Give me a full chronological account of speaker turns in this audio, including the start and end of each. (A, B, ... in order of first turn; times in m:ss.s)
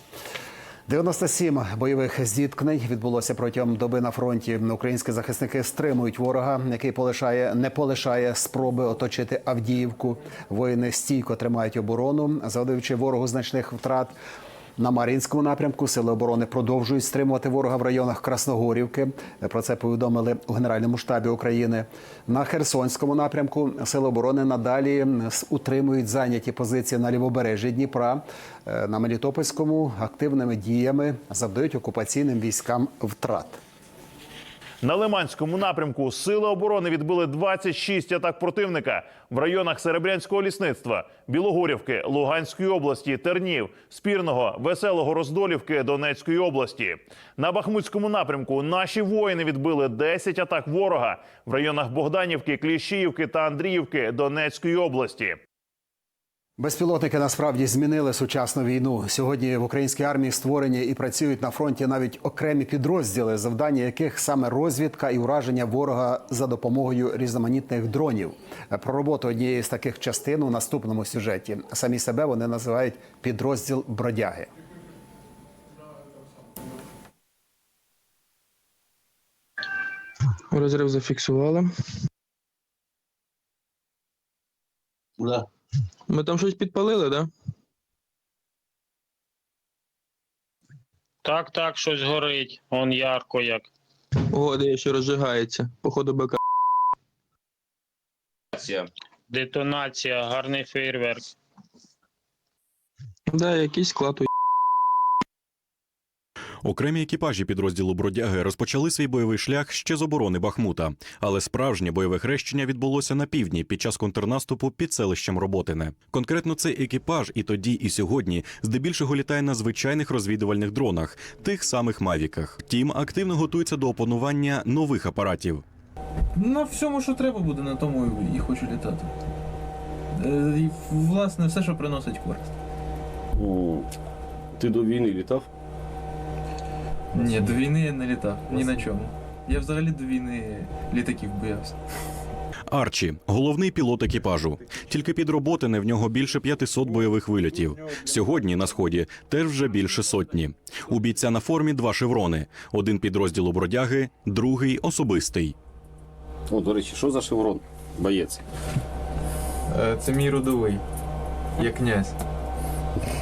0:00.9-0:14.2 A
0:14.8-0:33.6 A
0:34.8-0:55.4 B
0:56.6-1:14.5 A
1:20.5-1:21.7 C
1:26.1-1:27.3 C
1:31.4-1:33.6 D
1:34.4-1:36.4 C
1:39.4-1:41.2 D
1:43.3-1:44.2 C
1:46.6-2:05.6 E
2:06.4-2:09.1 F
2:10.2-2:12.5 F
2:13.4-2:13.8 G
2:14.6-2:15.4 G
2:17.1-2:21.8 F
2:22.7-2:35.6 E
2:36.5-2:38.4 G
2:39.7-2:40.8 F
2:41.6-2:42.1 F